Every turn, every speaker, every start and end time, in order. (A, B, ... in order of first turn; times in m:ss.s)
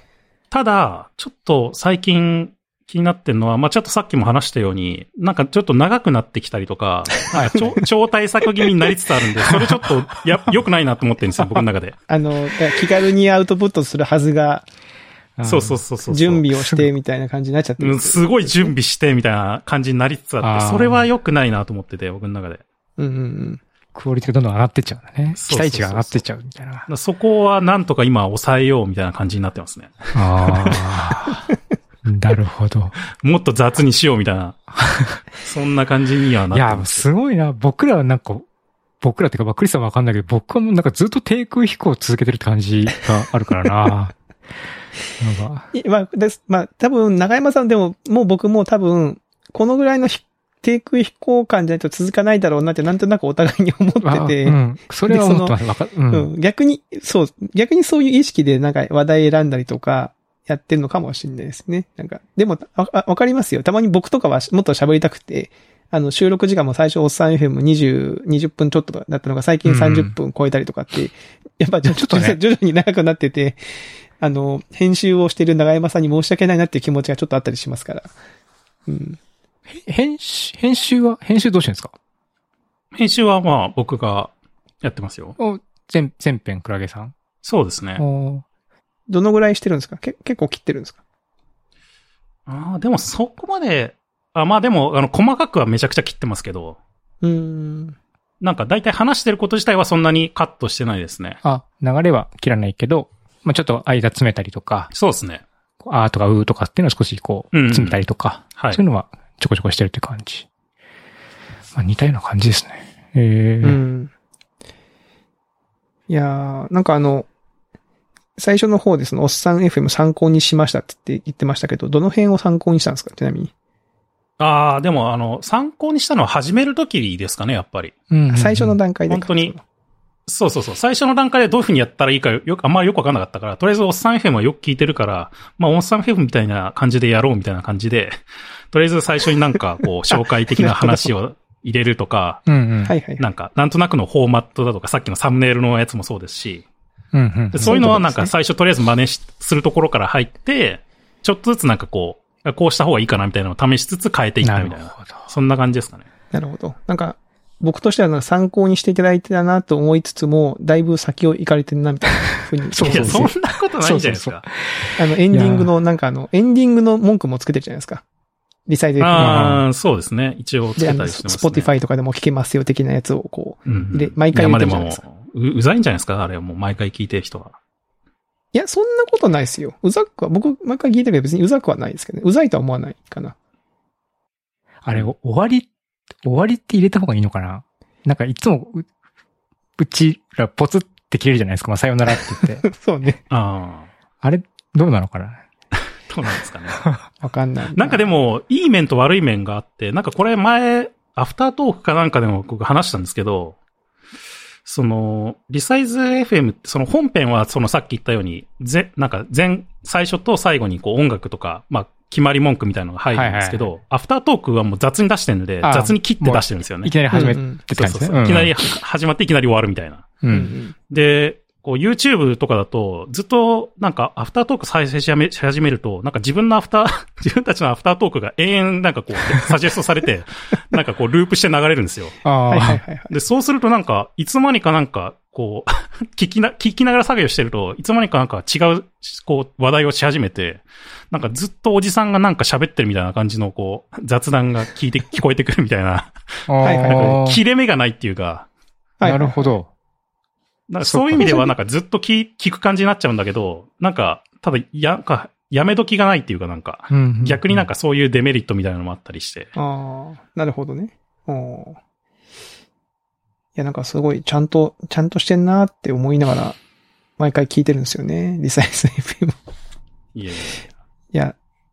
0:00.5-0:12.0 A
0:07.3-0:07.6 B
0:08.6-0:09.0 C
0:12.1-0:14.6 C
0:15.4-0:15.8 B
0:15.4-0:16.4 A
0:16.1-0:18.7 C
0:16.5-0:16.9 B
0:17.8-0:22.6 A
0:20.4-0:21.1 B
0:23.0-0:23.6 C
0:23.9-0:26.9 B
0:25.4-0:26.2 A
0:26.9-0:30.8 A
0:30.1-0:31.4 B
0:32.0-0:33.0 B
0:33.2-0:34.6 A
0:34.7-0:35.2 B
0:35.4-0:37.1 A
0:36.5-0:38.4 B
0:39.0-0:44.1 B
0:45.2-0:45.7 B
0:45.7-0:55.5 C
0:54.0-0:56.3 B
0:56.1-1:13.6 C
1:09.6-1:10.2 B
1:11.8-1:12.4 B
1:14.2-1:18.1 C
1:18.9-1:19.2 C
1:19.8-1:21.9 B
1:22.9-1:25.4 A
1:25.4-1:27.1 B
1:27.4-1:28.0 A
1:28.0-1:28.4 B
1:29.1-1:31.0 C
1:32.5-1:36.8 A
1:37.2-1:38.0 C
1:38.4-1:41.4 A
1:41.4-1:44.9 B
1:44.9-1:45.4 A
1:45.8-1:50.4 B
1:47.5-1:48.0 A
1:51.7-1:53.8 B
1:53.6-1:54.1 C
1:56.1-1:57.3 C
1:58.4-2:03.5 C
2:04.4-2:07.9 A
2:08.1-2:08.8 B
2:08.3-2:09.6 C
2:09.1-2:09.5 A
2:10.3-2:18.2 A
2:18.7-2:22.5 A
2:20.1-2:21.1 C
2:22.5-2:22.9 B
2:22.8-2:23.2 C
2:23.2-2:26.6 A
2:27.1-2:27.8 B
2:27.5-2:36.0 A
2:27.6-2:28.3 C
2:34.4-2:35.3 B
2:36.3-2:43.3 C
2:42.7-2:45.7 B
2:42.8-2:44.4 A
2:45.0-2:48.0 C
2:48.7-2:49.5 C
2:49.0-2:51.7 A
2:49.2-2:49.6 B
2:50.8-2:55.0 C
2:53.7-2:57.6 A
2:58.5-3:03.3 C
3:04.8-3:05.7 B
3:06.2-3:08.9 B
3:09.8-3:12.6 B
3:12.6-3:13.2 C
3:13.3-3:13.9 A
3:14.2-3:15.4 B
3:16.1-3:16.8 A
3:17.2-3:18.1 C
3:17.8-3:23.6 A
3:24.6-3:40.2 A
3:33.1-3:33.7 B
3:35.6-3:38.5 B
3:37.1-3:37.6 C
3:40.2-3:40.5 B
3:40.3-3:40.7 C
3:40.9-3:52.2 A
3:52.2-3:52.8 B
3:52.5-3:53.1 C
3:53.1-4:08.5 A
4:06.5-4:07.4 B
4:06.6-4:07.2 C
4:09.0-4:09.5 C
4:09.0-4:09.7 B
4:10.7-4:19.5 A
4:10.8-4:11.4 B
4:11.2-4:11.5 C
4:16.9-4:17.6 B
4:19.6-4:21.8 C
4:23.6-4:26.6 C
4:27.2-4:29.4 C
4:30.1-4:30.7 A
4:31.1-4:31.4 C